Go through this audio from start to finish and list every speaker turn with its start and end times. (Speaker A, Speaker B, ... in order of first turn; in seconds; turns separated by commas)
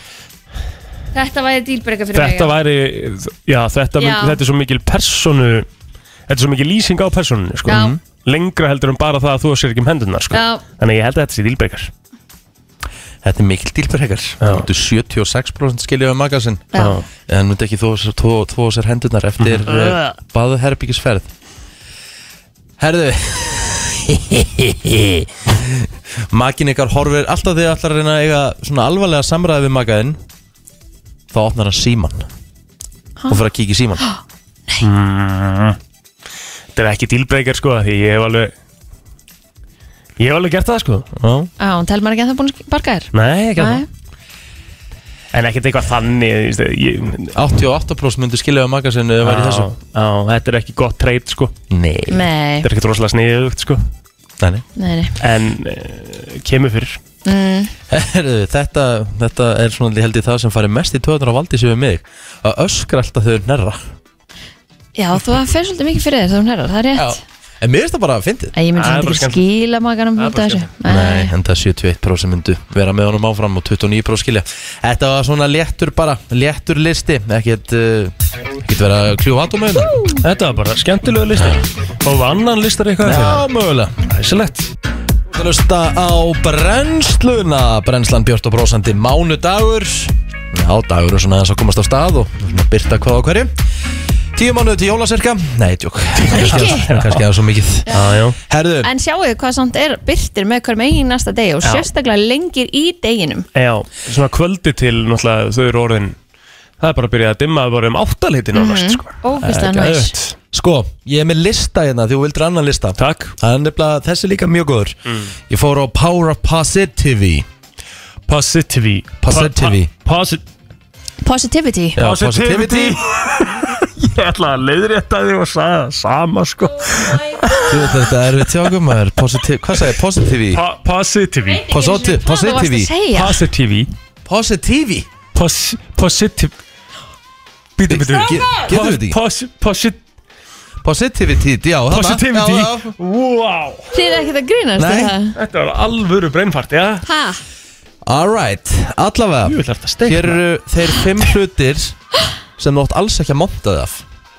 Speaker A: 1.1-2.5, Speaker B: 2.1-5.7, Speaker A: 4.0-4.4, Speaker B: 6.3-11.9, Speaker A: 7.7-7.9, Speaker C: 7.7-8.0, Speaker A: 10.3-10.6, Speaker C: 13.2-21.3, Speaker B: 14.4-14.7, Speaker B: 16.7-17.0, Speaker B: 19.4-20.1, Speaker C: 22.8-30.2, Speaker C: 31.3-32.3, Speaker C: 33.3-34.0, Speaker A: 34.0-34.8, Speaker B: 34.8-35.8, Speaker B: 36.7-38.5, Speaker B: 40.2-41.1, Speaker C: 41.1-41.5, Speaker A: 41.6-43.8, Speaker B: 43.1-43.8, Speaker B: 45.3-47.4, Speaker C: 47.3-49.7, Speaker B: 49.2-51.5, Speaker C: 51.7-52.3, Speaker A: 52.1-52.7, Speaker B: 52.6-53.8, Speaker C: 54.4-54.6, Speaker A: 54.8-55.1, Speaker B: 55.2-57.0, Speaker A: 57.2-57.7, Speaker C: 57.9-63.9, Speaker A: 65.0-67.2, Speaker C: 67.0-68.5, Speaker A: 68.5-71.3, Speaker B: 68.7-69.5, Speaker B: 70.2-70.7, Speaker C: 70.8-80.0, Speaker B: 80.2-83.5, Speaker C: 83.0-84.0, Speaker B: 84.0-84.7, Speaker C: 85.3-93.5, Speaker C: 94.3-97.9, Speaker B: 96.2-97.2, Speaker A: 96.3-96.8, Speaker A: 97.9-98.1, Speaker B: 97.9-98.4, Speaker C: 98.4-98.9, Speaker A: 98.8-103.5, Speaker B: 101.6-101.9, Speaker B: 103.5-106.2, Speaker B: 106.8-110.3, Speaker A: 108.5-110.1, Speaker C: 110.5-115.0, Speaker B: 113.0-113.3, Speaker C: 115.5-117.5, Speaker B: 118.3-120.4, Speaker C: 119.2-119.9, Speaker A: 121.2-122.0, Speaker C: 122.0-123.0, Speaker B: 122.0-128.7, Speaker C: 127.7-130.6, Speaker B: 129.7-130.0, Speaker B: 130.5-131.6, Speaker A: 131.5-133.4, Speaker C: 131.7-132.9, Speaker B: 133.1-133.9, Speaker C: 134.2-135.1, Speaker B: 135.3-136.5, Speaker B: 137.8-140.0, Speaker C: 137.9-139.2, Speaker C: 140.8-142.9, Speaker B: 141.9-143.9, Speaker A: 143.9-145.3, Speaker C: 144.8-145.1, Speaker B: 145.3-147.0, Speaker A: 147.1-147.4, Speaker C: 148.1-152.0, Speaker B: 149.4-150.4, Speaker C: 152.6-154.0